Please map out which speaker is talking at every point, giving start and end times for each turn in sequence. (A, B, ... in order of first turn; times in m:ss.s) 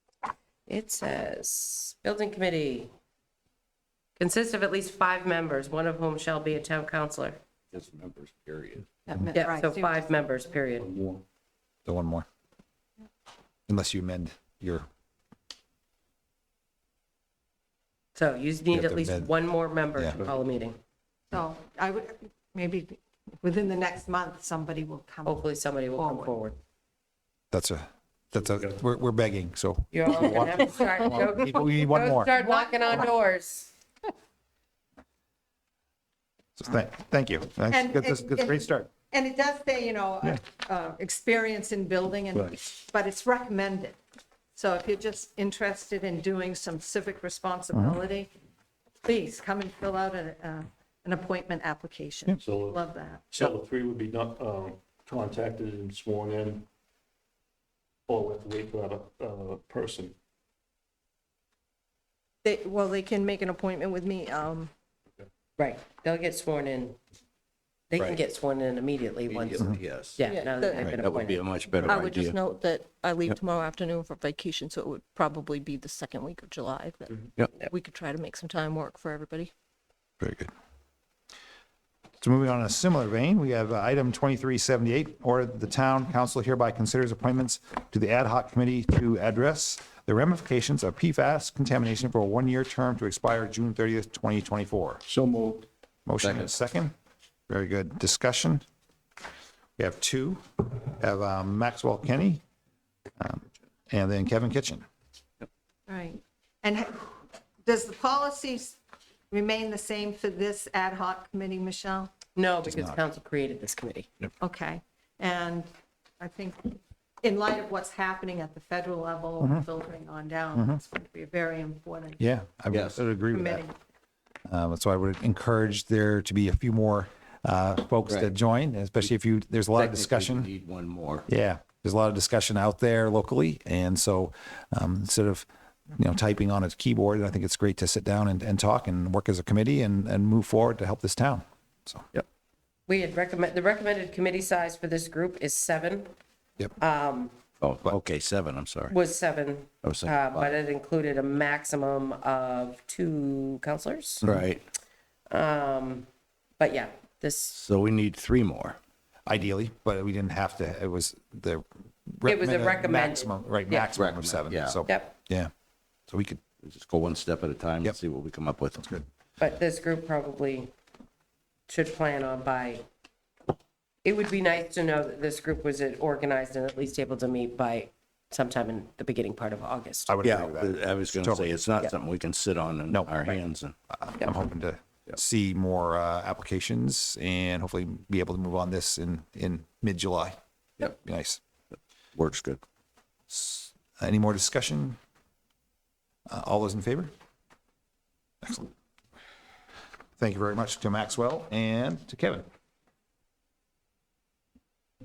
0:00.7-0:02.9 A
0:04.2-0:07.4 A
0:07.7-0:08.9 B
0:09.1-0:10.2 C
0:09.3-0:10.9 A
0:10.8-0:11.2 D
0:11.9-0:12.3 E
0:13.7-0:14.9 E
0:18.2-0:20.8 A
0:18.7-0:19.3 E
0:20.0-0:20.2 E
0:21.3-0:26.4 C
0:25.3-0:26.6 A
0:27.5-0:32.3 E
0:29.9-0:33.7 A
0:32.3-0:32.9 C
0:36.6-0:38.9 E
0:37.7-0:44.0 C
0:42.3-0:42.6 D
0:44.6-0:48.3 C
0:49.0-0:53.3 C
0:52.4-0:56.7 D
0:58.1-1:00.2 D
1:02.4-1:04.7 F
1:02.5-1:04.4 C
1:05.6-1:07.0 A
1:07.9-1:11.5 A
1:09.3-1:10.2 B
1:10.3-1:10.9 F
1:11.0-1:12.4 B
1:11.8-1:19.5 F
1:20.2-1:20.5 E
1:22.2-1:35.0 E
1:35.1-1:35.7 D
1:36.1-1:36.9 E
1:36.2-1:36.5 B
1:37.5-1:38.6 E
1:39.8-1:42.4 E
1:43.2-1:44.8 E
1:45.9-1:48.8 C
1:49.3-1:52.1 C
1:52.4-1:54.1 A
1:52.6-1:53.0 E
1:54.4-1:55.7 C
1:56.2-2:02.2 C
1:59.4-1:59.6 E
2:00.6-2:00.8 E
2:02.2-2:03.6 E
2:02.7-2:03.0 B
2:03.3-2:03.7 C
2:04.5-2:10.5 E
2:08.1-2:08.3 B
2:09.8-2:11.2 B
2:11.3-2:22.1 E
2:22.9-2:26.1 A
2:26.8-2:27.3 A
2:27.6-2:29.0 B
2:28.9-2:34.2 A
2:29.8-2:30.6 B
2:34.2-2:34.6 B
2:35.3-2:36.1 A
2:36.6-2:37.6 A
2:37.5-2:38.8 B
2:39.3-2:45.5 E
2:42.3-2:43.9 A
2:44.0-2:44.8 B
2:44.9-2:45.2 A
2:46.1-2:46.4 E
2:46.6-2:48.8 B
2:48.8-2:49.1 E
2:49.4-2:50.7 A
2:51.7-2:52.8 A
2:54.0-3:00.1 A
3:00.1-3:01.5 E
3:00.2-3:03.7 B
3:03.9-3:11.4 E
3:12.2-3:12.6 B
3:13.3-3:15.0 E
3:16.3-3:17.1 E
3:18.4-3:18.7 E
3:20.2-3:22.4 E